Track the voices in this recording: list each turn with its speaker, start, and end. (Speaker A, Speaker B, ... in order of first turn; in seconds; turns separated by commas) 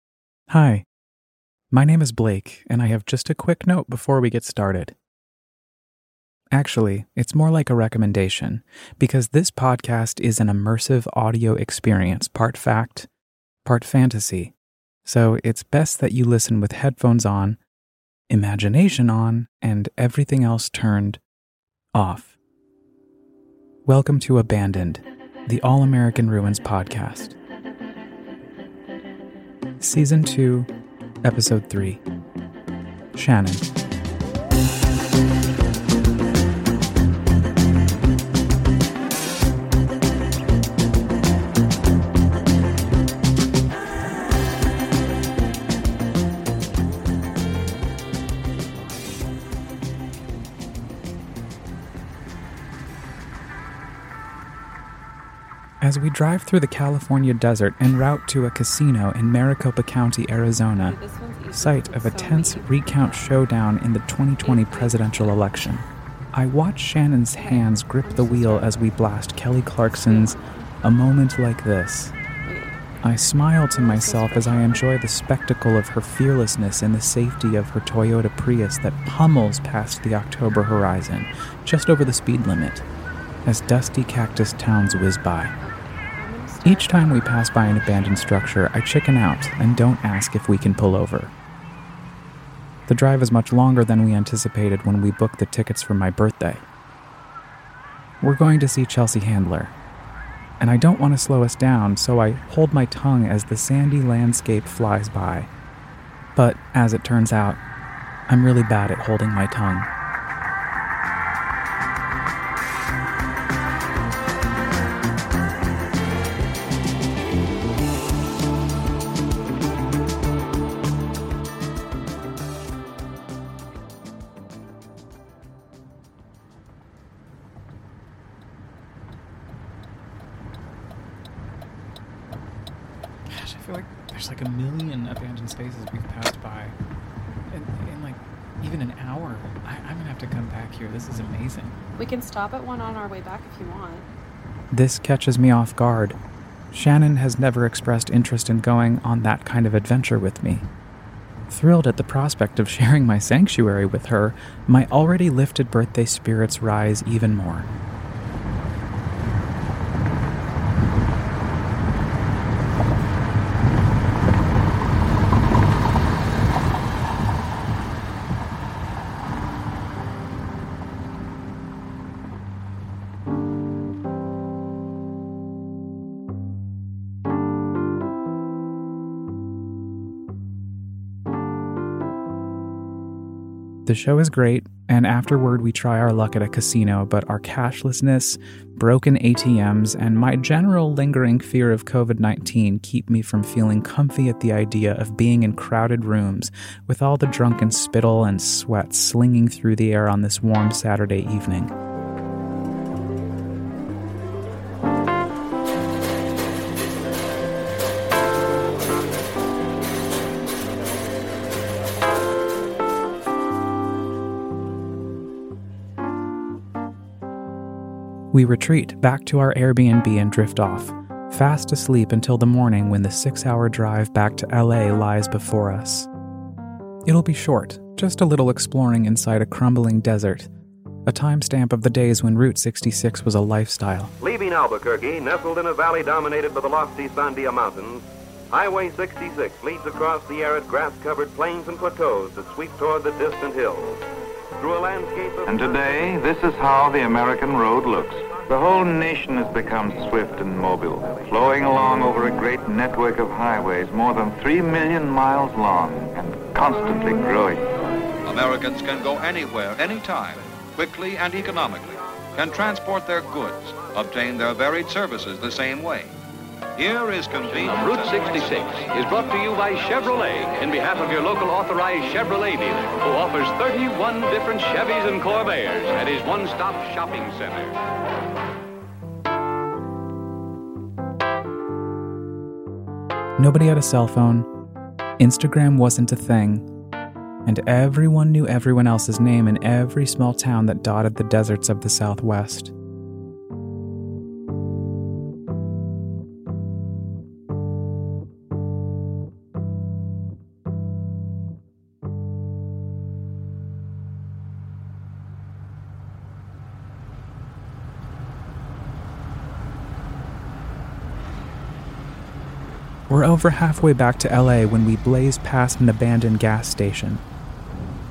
Speaker A: 0.5-0.9, Speaker A: 1.7-5.0, Speaker A: 6.5-13.1, Speaker A: 13.7-14.5, Speaker A: 15.1-17.6, Speaker A: 18.3-21.2, Speaker A: 21.9-22.4, Speaker A: 23.9-27.4, Speaker A: 29.8-30.7, Speaker A: 31.2-32.0, Speaker A: 33.1-33.7, Speaker A: 55.8-61.0, Speaker B: 60.7-63.3, Speaker A: 61.5-72.1, Speaker B: 64.4-65.5, Speaker B: 67.3-68.9, Speaker B: 69.9-70.7, Speaker B: 72.5-72.8, Speaker A: 73.0-82.8, Speaker B: 73.7-74.8, Speaker A: 83.5-85.5, Speaker B: 85.6-87.1, Speaker A: 86.6-91.3, Speaker A: 92.9-96.6, Speaker A: 98.2-99.7, Speaker A: 100.6-105.5, Speaker A: 106.4-107.6, Speaker A: 108.3-109.9, Speaker A: 133.3-136.8, Speaker A: 137.5-141.8, Speaker B: 142.0-144.1, Speaker A: 144.7-146.2, Speaker A: 146.7-150.7, Speaker A: 151.5-157.7, Speaker A: 183.9-201.7, Speaker A: 218.3-226.1, Speaker A: 227.1-230.5, Speaker A: 231.1-234.1, Speaker C: 234.2-244.0, Speaker C: 244.6-245.8, Speaker D: 245.5-257.6, Speaker E: 258.3-266.1, Speaker E: 266.8-268.9, Speaker F: 267.6-277.7, Speaker E: 269.8-270.1, Speaker A: 283.4-284.5, Speaker A: 285.2-286.7, Speaker A: 287.4-292.7, Speaker A: 313.1-317.2